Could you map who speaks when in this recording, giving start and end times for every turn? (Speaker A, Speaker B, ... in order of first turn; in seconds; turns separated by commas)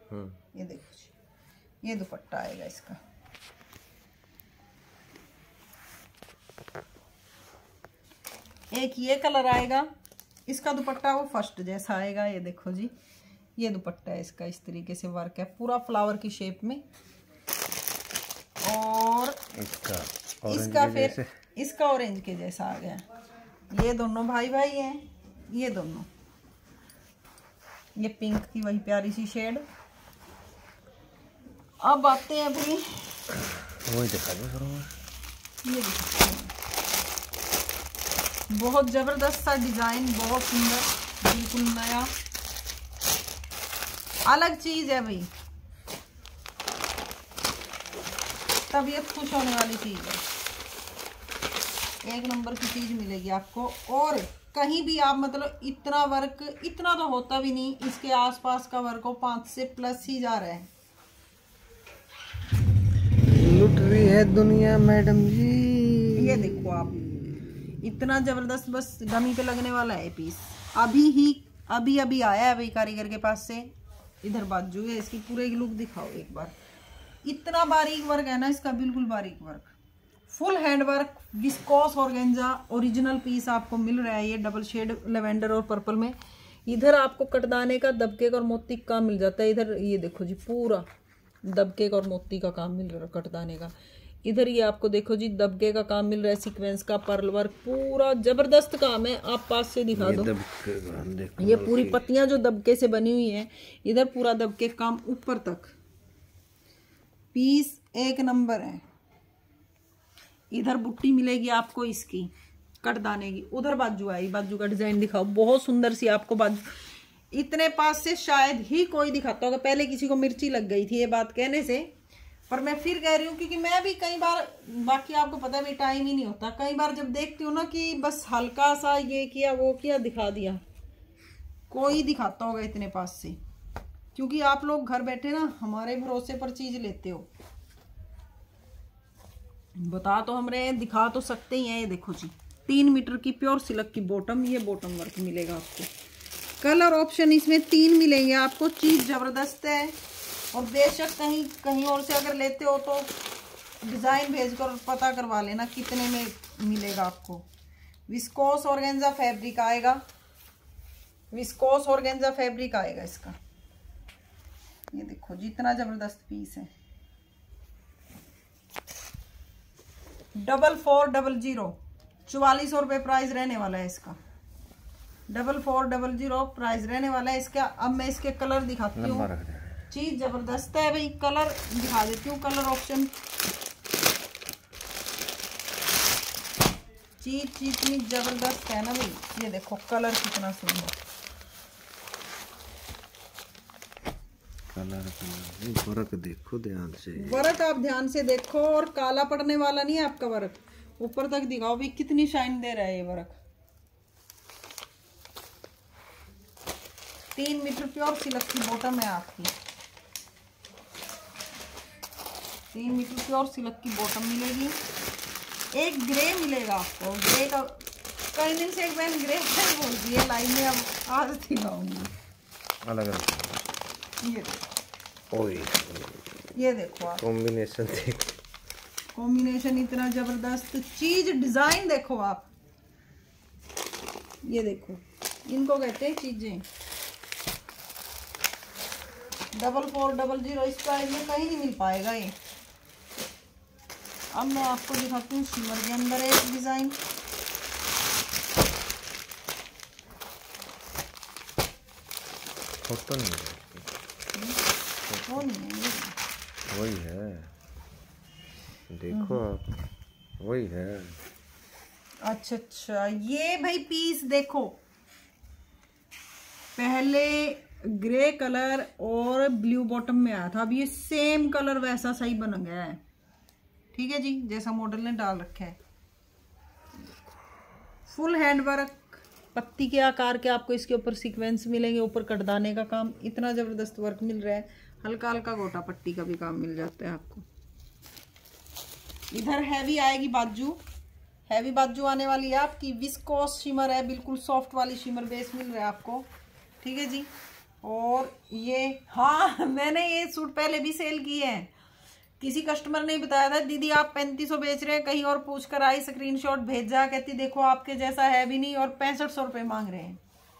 Speaker A: 0.5-1.1, Speaker A: 1.8-3.0, Speaker A: 8.7-9.9, Speaker A: 10.5-12.9, Speaker A: 13.6-16.8, Speaker A: 18.6-19.4, Speaker B: 19.5-21.3, Speaker A: 20.5-23.0, Speaker A: 23.7-26.1, Speaker A: 28.0-29.6, Speaker A: 31.8-33.2, Speaker B: 33.5-34.9, Speaker A: 35.6-36.5, Speaker A: 38.5-42.1, Speaker A: 44.3-45.3, Speaker A: 48.7-50.2, Speaker A: 52.0-60.7, Speaker B: 63.3-66.4, Speaker A: 66.2-67.0, Speaker A: 67.8-73.7, Speaker A: 74.2-76.5, Speaker A: 77.2-79.7, Speaker A: 80.3-86.1, Speaker A: 86.7-90.8, Speaker A: 91.5-100.3, Speaker B: 99.9-102.0, Speaker A: 101.4-105.7, Speaker A: 107.3-108.8, Speaker A: 110.5-116.7, Speaker A: 117.3-121.9, Speaker A: 122.5-130.6, Speaker A: 131.7-133.4, Speaker A: 134.1-137.3, Speaker A: 139.8-145.9, Speaker A: 146.6-149.9, Speaker A: 150.5-153.1, Speaker A: 153.8-157.5, Speaker A: 158.1-160.0, Speaker A: 161.3-163.3, Speaker A: 164.9-166.7, Speaker A: 170.3-174.2, Speaker A: 175.3-179.3, Speaker B: 178.9-179.8, Speaker A: 179.9-183.1, Speaker A: 187.2-190.9, Speaker B: 194.7-197.5, Speaker A: 197.2-203.4, Speaker A: 207.3-209.5, Speaker A: 212.7-214.8, Speaker A: 215.7-222.1, Speaker B: 222.8-223.6, Speaker A: 224.2-224.6, Speaker B: 225.3-226.2, Speaker A: 226.6-227.2, Speaker B: 227.2-228.3, Speaker A: 229.1-232.5, Speaker A: 234.4-236.6, Speaker A: 239.5-242.3, Speaker A: 244.3-247.0, Speaker B: 252.8-253.9, Speaker A: 254.3-254.6, Speaker B: 255.1-255.4, Speaker A: 255.2-256.1, Speaker B: 256.7-257.5, Speaker B: 258.9-259.7, Speaker A: 259.1-259.4, Speaker B: 260.4-261.2, Speaker A: 262.2-264.8, Speaker A: 266.8-273.0, Speaker A: 273.9-275.8, Speaker A: 278.1-287.4, Speaker A: 289.3-290.8, Speaker A: 291.5-296.3, Speaker A: 296.8-297.3, Speaker A: 297.8-301.7, Speaker A: 302.4-310.2